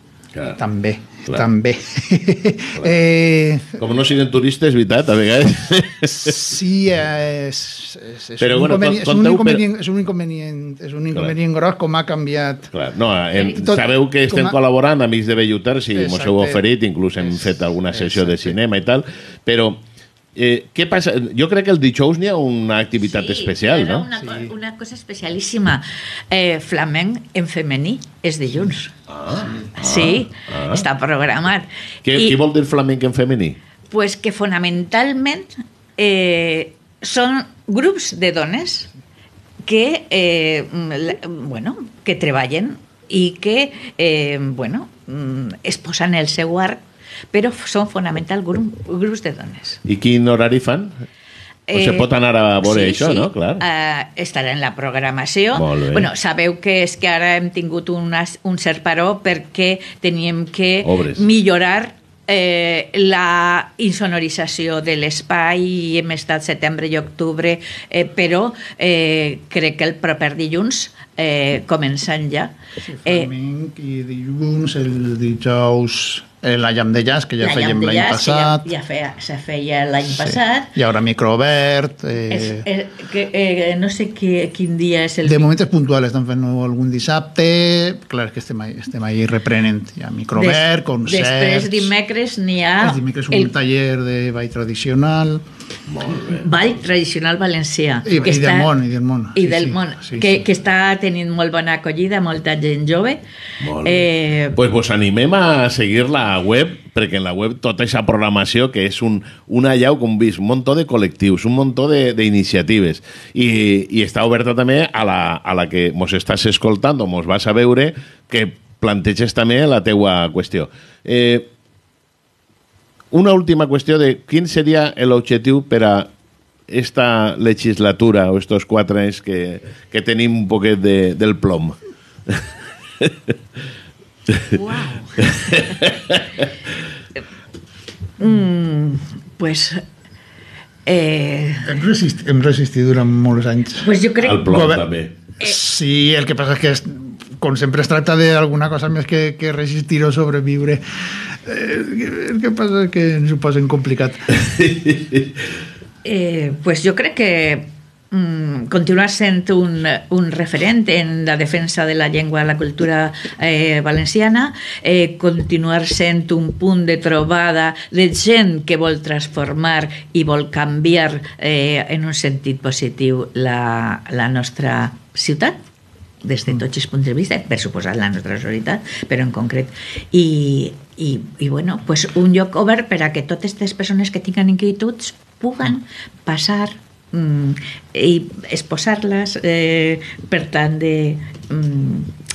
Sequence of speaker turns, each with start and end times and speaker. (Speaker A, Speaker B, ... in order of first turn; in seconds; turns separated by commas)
Speaker A: 0.6-3.8, Speaker B: 3.8-6.4, Speaker A: 6.2-12.7, Speaker B: 8.4-9.6, Speaker B: 12.7-19.8, Speaker A: 13.4-14.6, Speaker A: 15.9-16.6, Speaker A: 17.2-18.6, Speaker B: 20.4-24.1, Speaker C: 23.0-28.9, Speaker A: 24.1-24.5, Speaker B: 29.1-30.8, Speaker C: 29.7-32.4, Speaker B: 32.0-33.6, Speaker C: 33.9-38.9, Speaker C: 39.6-49.8, Speaker B: 49.8-50.9, Speaker C: 51.7-73.3, Speaker B: 51.7-53.6, Speaker B: 55.5-56.1, Speaker B: 60.8-61.2, Speaker A: 72.8-78.7, Speaker C: 77.4-80.7, Speaker A: 80.0-82.7, Speaker C: 82.3-85.5, Speaker A: 85.2-91.9, Speaker C: 90.3-93.5, Speaker A: 92.8-95.4, Speaker B: 95.9-96.4, Speaker C: 96.2-98.7, Speaker A: 98.0-100.4, Speaker C: 99.3-103.2, Speaker B: 103.6-121.5, Speaker C: 103.8-104.6, Speaker B: 123.1-126.1, Speaker B: 126.7-131.8, Speaker B: 133.0-133.3, Speaker C: 134.5-135.3, Speaker B: 135.2-136.2, Speaker C: 138.2-139.8, Speaker C: 140.8-141.7, Speaker A: 141.6-143.9, Speaker C: 143.8-144.5, Speaker B: 144.2-145.1, Speaker A: 144.4-150.8, Speaker A: 151.4-154.3, Speaker B: 154.4-155.3, Speaker C: 156.0-175.6, Speaker C: 176.2-192.1